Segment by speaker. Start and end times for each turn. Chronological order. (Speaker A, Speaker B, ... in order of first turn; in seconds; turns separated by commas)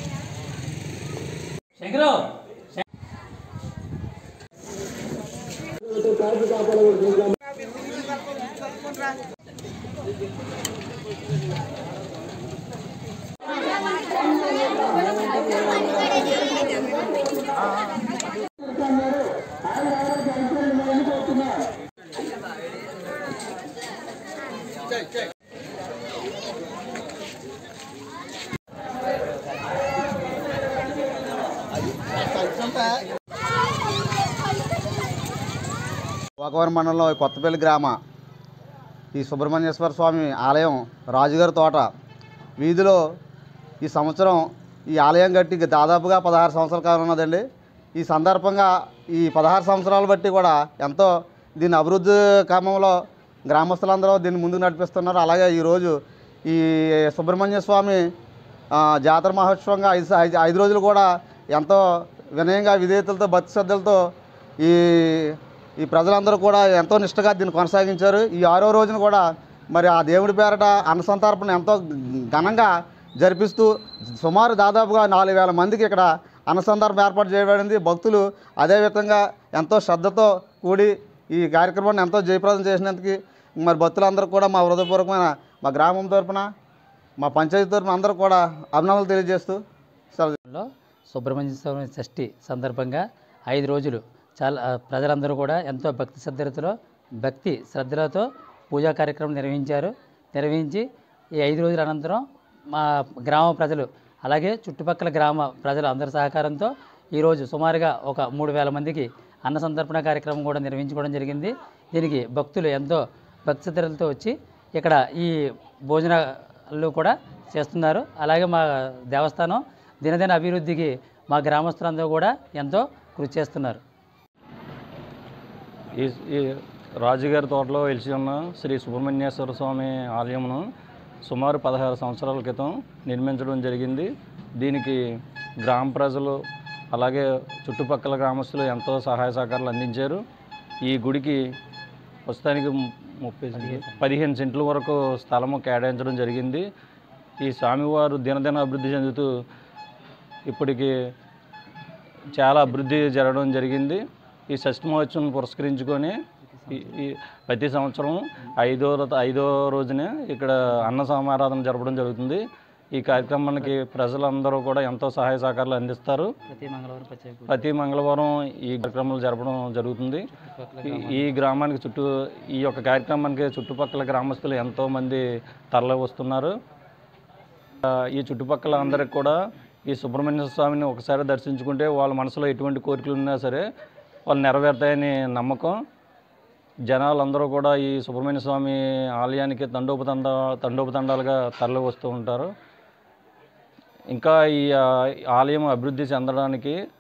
Speaker A: 1.8-2.3, Speaker B: 36.4-38.0, Speaker B: 39.1-41.9, Speaker B: 42.6-43.0, Speaker B: 43.8-47.4, Speaker B: 48.0-52.9, Speaker B: 53.5-55.9, Speaker B: 56.5-58.0, Speaker B: 58.8-61.8, Speaker B: 62.3-64.0, Speaker B: 64.6-86.5, Speaker B: 87.2-89.6, Speaker A: 90.5-100.8, Speaker A: 101.4-102.2, Speaker A: 102.7-115.3, Speaker A: 115.9-116.2, Speaker A: 116.7-123.8, Speaker C: 126.0-126.4, Speaker C: 127.0-130.6, Speaker C: 131.3-134.1, Speaker C: 134.6-135.0, Speaker C: 135.6-136.4, Speaker C: 136.9-140.2, Speaker C: 140.9-141.4, Speaker C: 142.3-146.6, Speaker A: 143.5-144.1, Speaker C: 147.4-149.3, Speaker C: 150.5-150.9, Speaker C: 152.3-156.1, Speaker A: 156.5-156.9, Speaker C: 156.7-162.4, Speaker C: 162.9-166.3, Speaker A: 166.5-167.6, Speaker C: 167.5-170.2, Speaker A: 170.3-171.4, Speaker C: 170.8-176.5, Speaker C: 177.8-183.6, Speaker C: 184.3-185.7, Speaker C: 186.9-192.5, Speaker C: 194.1-196.8